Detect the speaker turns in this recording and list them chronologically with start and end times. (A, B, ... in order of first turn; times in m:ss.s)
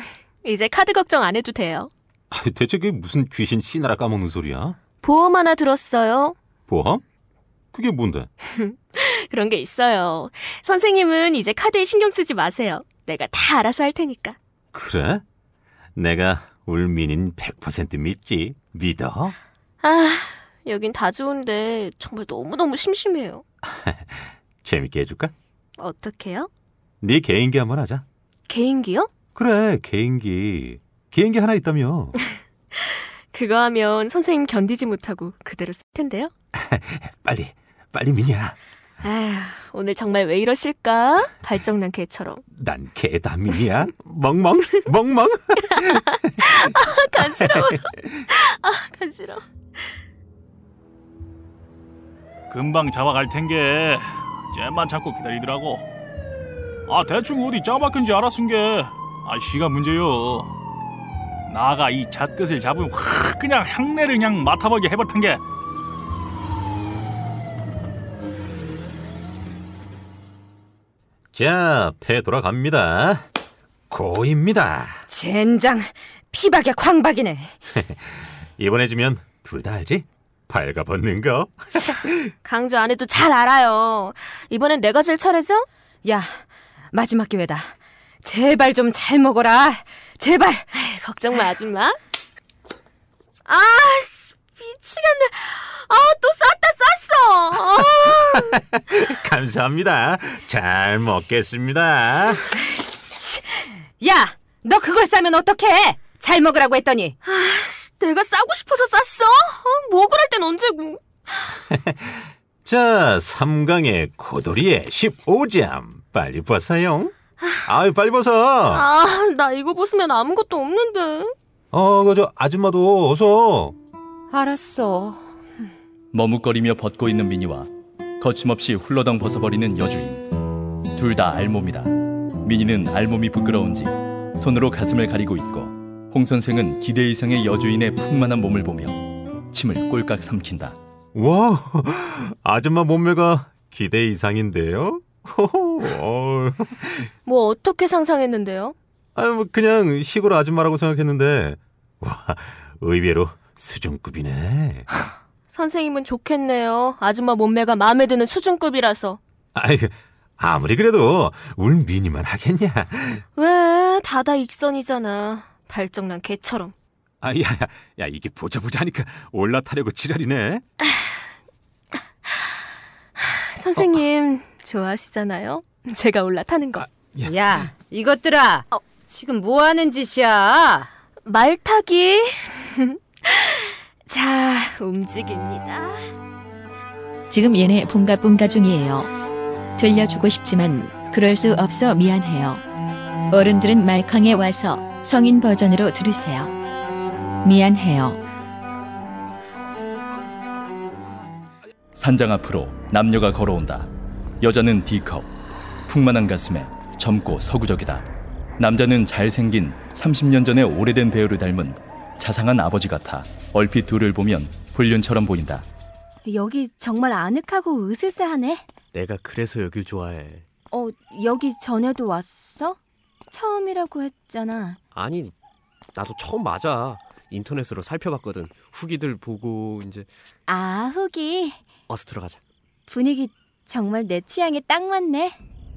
0:00.4-0:01.9 A
0:02.3-0:04.8 B
0:05.0-0:06.4 A
0:06.7-0:07.0 B
0:07.7-0:08.3 B
0:08.5-0:14.4 A
0:14.7-0:15.2 B
0:16.0-0:19.4 B
0:19.8-0:23.4 A
0:23.6-0:25.3 B
0:25.8-0:26.5 A
0:27.0-0:28.0 B
0:28.5-0:29.1 A
0:29.4-0:32.2 B
0:32.7-0:36.3 A
0:36.6-0:38.6 B
0:39.0-0:42.4 A
0:42.6-0:47.4 B
0:46.4-0:49.4 A
0:52.5-0:55.8 C
0:56.9-1:00.5 C
1:01.5-1:05.4 C
1:11.3-1:13.2 B
1:13.9-1:15.0 B
1:15.1-1:17.6 D
1:17.8-1:22.1 B
1:22.4-1:25.7 A
1:26.0-1:30.7 D
1:30.7-1:32.0 A
1:33.5-1:38.5 A
1:38.5-1:42.5 B
1:42.6-1:47.2 D
1:47.2-1:51.5 A
1:51.7-1:58.9 B
1:58.7-2:01.3 A
2:01.7-2:03.8 B
2:06.1-2:07.7 E
2:08.2-2:10.3 E
2:11.0-2:20.8 E
2:21.2-2:27.1 B
2:27.2-2:28.8 A
2:29.2-2:34.9 B
2:35.5-2:39.2 A
2:39.6-2:43.2 B
2:43.4-2:46.7 A
2:47.2-2:50.6 B
2:53.2-2:56.9 A
2:56.9-2:57.7 B
2:57.3-3:00.9 D
3:01.2-3:06.1 A
3:07.3-3:09.1 F
3:09.8-3:12.6 F
3:13.3-3:16.5 F
3:17.4-3:18.2 F
3:22.0-3:23.9 E
3:24.4-3:25.3 E
3:25.9-3:28.1 E
3:28.6-3:35.7 E
3:36.2-3:38.7 G
3:38.9-3:40.4 H
3:40.7-3:42.8 G
3:43.3-3:44.8 G
3:44.9-3:45.3 H
3:46.0-3:50.1 H
3:50.5-3:51.6 G
3:51.9-3:52.4 H
3:52.9-3:55.4 G